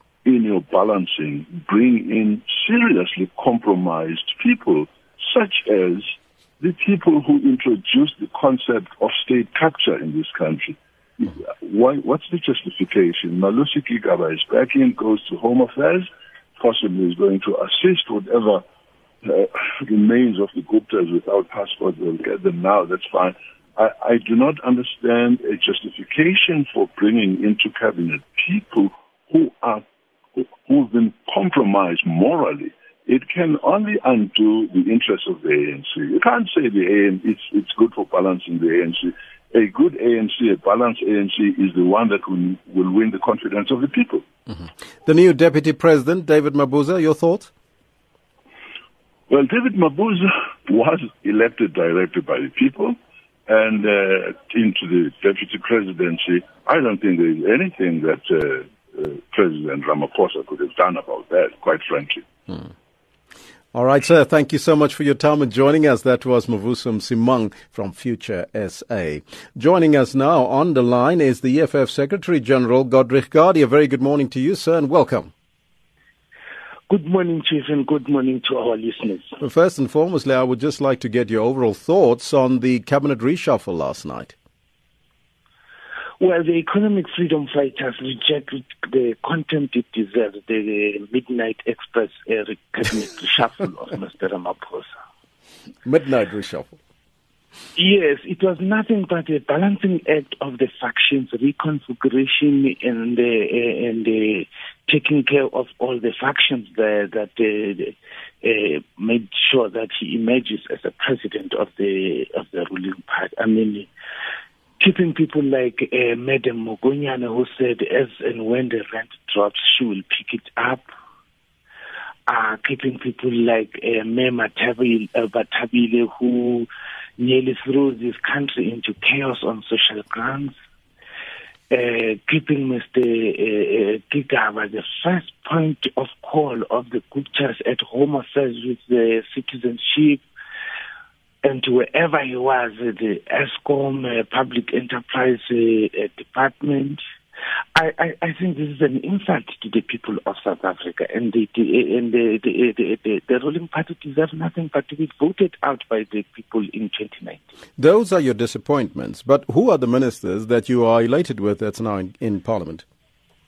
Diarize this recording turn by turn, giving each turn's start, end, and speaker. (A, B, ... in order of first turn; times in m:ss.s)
0:00.2-0:18.6 A
0:19.2-0:29.8 A
0:30.4-0:44.2 A
0:44.5-0:47.5 B
0:49.3-0:53.0 A
0:53.5-1:02.2 A
1:03.7-1:15.3 B
1:16.9-1:19.4 C
1:19.4-1:24.3 B
1:26.2-1:34.9 C
1:35.8-1:36.8 B
1:37.8-1:53.9 C
1:54.8-2:00.9 C
2:02.3-2:10.5 C
2:11.7-2:20.2 C
2:21.4-2:27.0 C
2:27.8-2:37.4 C
2:37.8-2:42.8 B